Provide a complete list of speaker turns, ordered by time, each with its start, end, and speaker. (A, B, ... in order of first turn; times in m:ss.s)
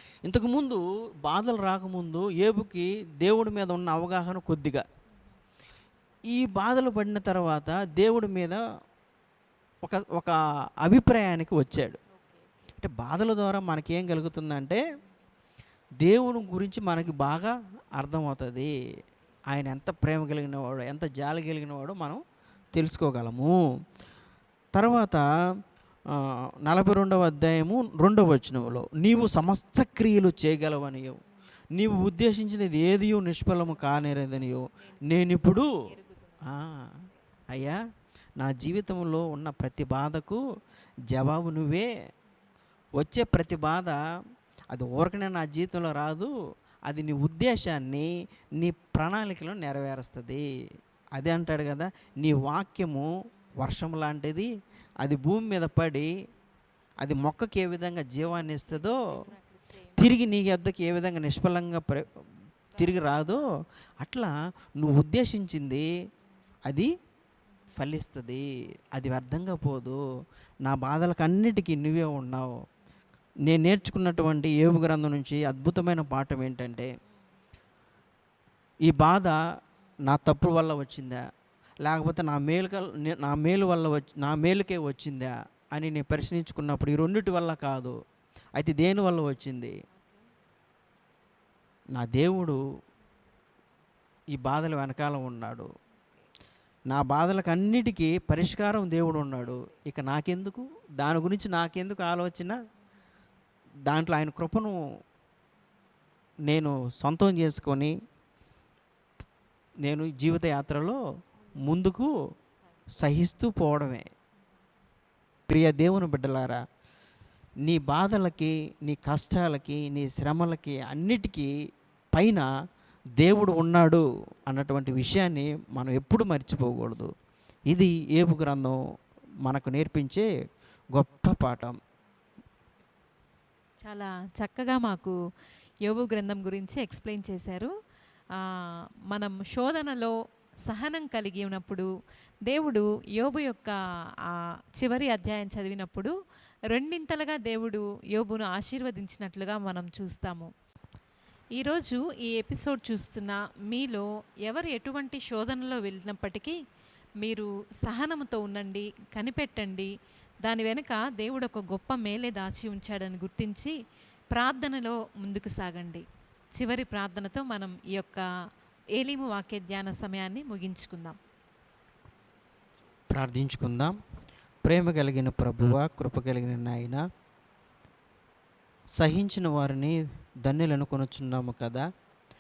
0:00.2-0:04.8 A
0:06.3-0:08.6 A
0:09.8-0:12.0 A
0:12.2-0:12.7 B
0:12.8-0:14.8 A
0:16.0-0:18.7 A
0:19.5-0:23.6 A
0:24.7-0:25.3 A
0:26.1-0:31.2 A
0:31.8-0:35.7 A
0:34.7-0:36.5 B
0:36.4-0:37.0 A
0:37.5-0:37.8 A
0:38.4-0:40.4 A
0:41.1-0:41.9 A
0:43.0-0:44.0 A
0:44.7-0:46.3 A
0:46.9-0:48.1 A
0:48.6-0:50.4 A
0:51.1-0:54.5 A
0:55.0-0:56.1 A
0:57.0-0:59.2 A
0:58.8-1:00.0 B
1:00.0-1:02.1 A
1:02.8-1:03.4 A
1:04.0-1:05.8 A
1:06.6-1:06.9 A
1:07.8-1:10.0 A
1:10.6-1:12.5 A
1:13.4-1:16.9 A
1:18.8-1:19.4 A
1:20.0-1:21.2 A
1:21.8-1:28.0 A
1:28.6-1:29.7 A
1:31.9-1:32.6 A
1:34.3-1:35.7 A
1:36.9-1:42.6 A
1:43.9-1:44.8 A
1:46.5-1:47.9 A
1:49.8-1:51.0 A
1:51.6-1:52.1 A
1:52.9-1:54.1 A
1:55.5-1:56.6 A
1:57.6-2:01.5 A
2:02.1-2:02.5 A
2:03.2-2:07.1 A
2:07.7-2:08.8 A
2:09.4-2:10.2 A
2:10.9-2:11.8 A
2:13.8-2:15.1 B
2:15.8-2:17.7 B
2:18.4-2:21.9 B
2:22.5-2:23.8 B
2:24.3-2:26.1 B
2:26.7-2:30.5 B
2:31.6-2:36.6 B
2:37.2-2:39.9 B
2:40.4-2:43.8 B
2:44.3-2:48.2 B
2:48.9-2:51.2 B
2:53.1-2:54.0 A
2:54.6-2:57.0 A
2:59.0-3:01.8 A